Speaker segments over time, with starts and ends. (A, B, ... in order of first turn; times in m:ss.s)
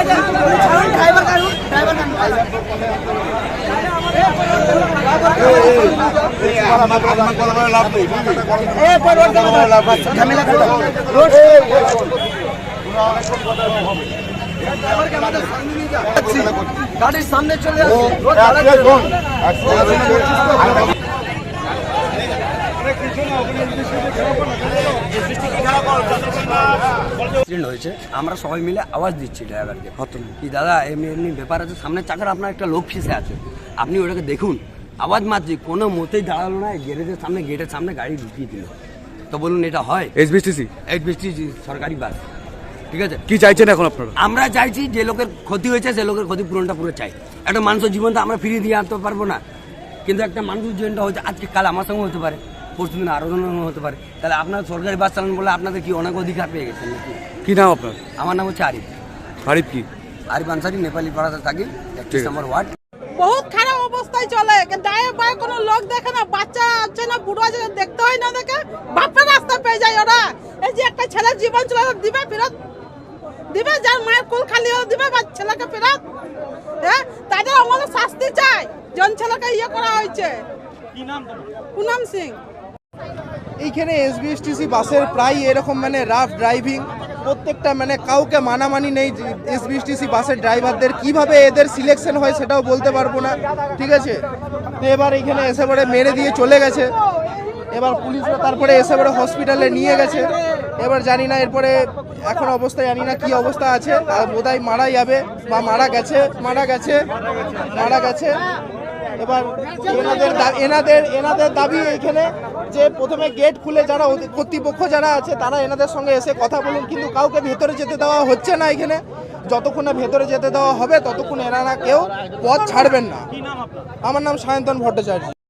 0:10.0-0:10.6 A
0:27.4-0:38.7 A
0:30.0-0:30.3 B
0:39.3-0:40.1 A
0:40.2-0:40.8 B
0:40.8-0:42.2 A
0:42.9-0:43.4 A
0:43.2-0:44.2 B
0:44.2-0:49.4 A
0:50.0-0:57.3 A
0:57.4-0:58.0 B
0:58.2-0:59.0 A
0:59.4-0:59.9 B
1:00.3-1:02.8 A
1:03.2-1:12.6 C
1:13.5-1:16.0 C
1:16.8-1:20.5 C
1:21.8-1:22.4 C
1:23.6-1:34.2 D
1:34.8-1:36.9 D
1:37.7-1:47.1 D
1:47.7-1:48.4 D
1:49.2-2:03.3 D
2:04.0-2:05.3 D